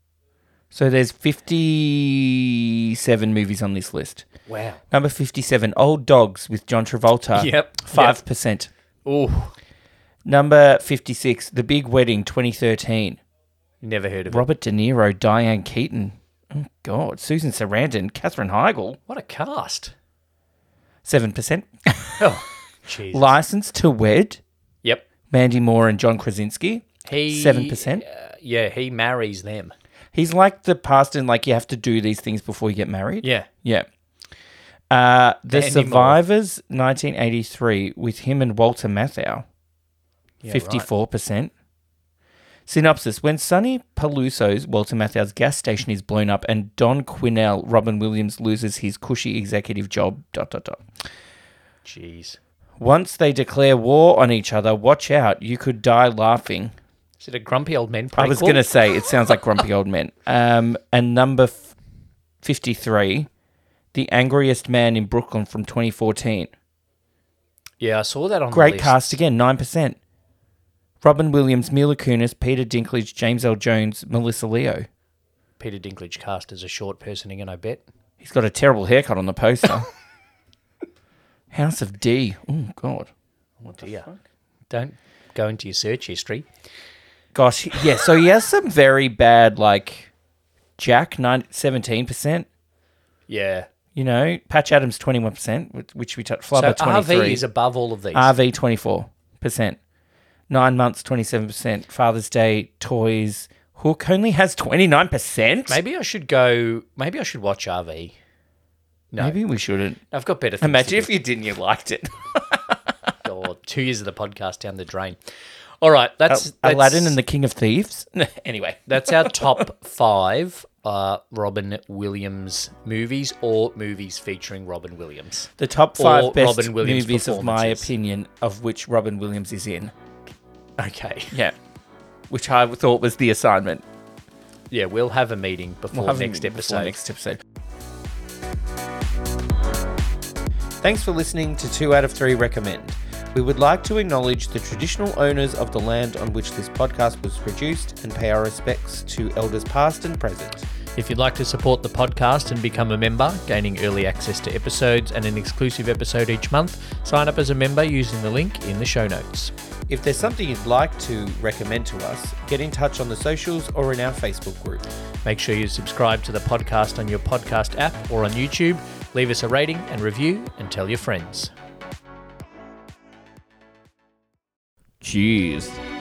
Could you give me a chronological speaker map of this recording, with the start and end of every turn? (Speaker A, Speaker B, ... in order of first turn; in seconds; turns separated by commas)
Speaker A: 0.7-4.3, Speaker B: 4.5-4.8, Speaker A: 4.9-8.7, Speaker B: 7.3-8.2, Speaker B: 9.1-9.5, Speaker A: 10.3-13.2, Speaker B: 13.8-14.5, Speaker A: 14.3-19.0, Speaker B: 19.1-19.9, Speaker A: 21.1-22.3, Speaker B: 22.2-23.4, Speaker A: 23.1-24.4, Speaker A: 25.3-28.1, Speaker B: 27.1-29.7, Speaker A: 30.1-33.9, Speaker B: 33.2-33.5, Speaker A: 34.9-39.5, Speaker B: 35.5-36.2, Speaker B: 40.4-40.9, Speaker A: 40.5-41.5, Speaker A: 42.7-50.8, Speaker B: 51.9-52.4, Speaker A: 52.8-56.7, Speaker B: 57.2-58.7, Speaker A: 58.2-61.7, Speaker A: 62.4-63.3, Speaker A: 63.9-66.5, Speaker B: 67.8-69.2, Speaker A: 68.5-70.0, Speaker A: 71.0-74.9, Speaker B: 75.6-77.8, Speaker A: 78.2-79.9, Speaker A: 81.5-83.1, Speaker B: 83.6-84.1, Speaker A: 83.7-84.2, Speaker B: 84.7-86.5, Speaker A: 87.3-90.1, Speaker A: 90.8-92.5, Speaker B: 93.3-93.7, Speaker A: 94.0-97.5, Speaker B: 96.5-98.3, Speaker A: 98.1-99.8, Speaker A: 100.5-105.8, Speaker B: 105.7-108.2, Speaker B: 109.1-109.4, Speaker A: 109.2-110.0, Speaker B: 110.1-111.2, Speaker A: 110.6-112.8, Speaker B: 113.2-115.2, Speaker B: 115.8-117.2, Speaker A: 116.3-119.6, Speaker B: 118.9-127.9, Speaker A: 125.6-129.9, Speaker B: 130.8-131.4, Speaker A: 132.3-133.8, Speaker B: 134.7-136.9, Speaker A: 135.9-137.4, Speaker A: 140.8-150.7, Speaker B: 151.0-159.5, Speaker A: 159.9-164.8, Speaker B: 165.2-171.5, Speaker A: 175.0-175.8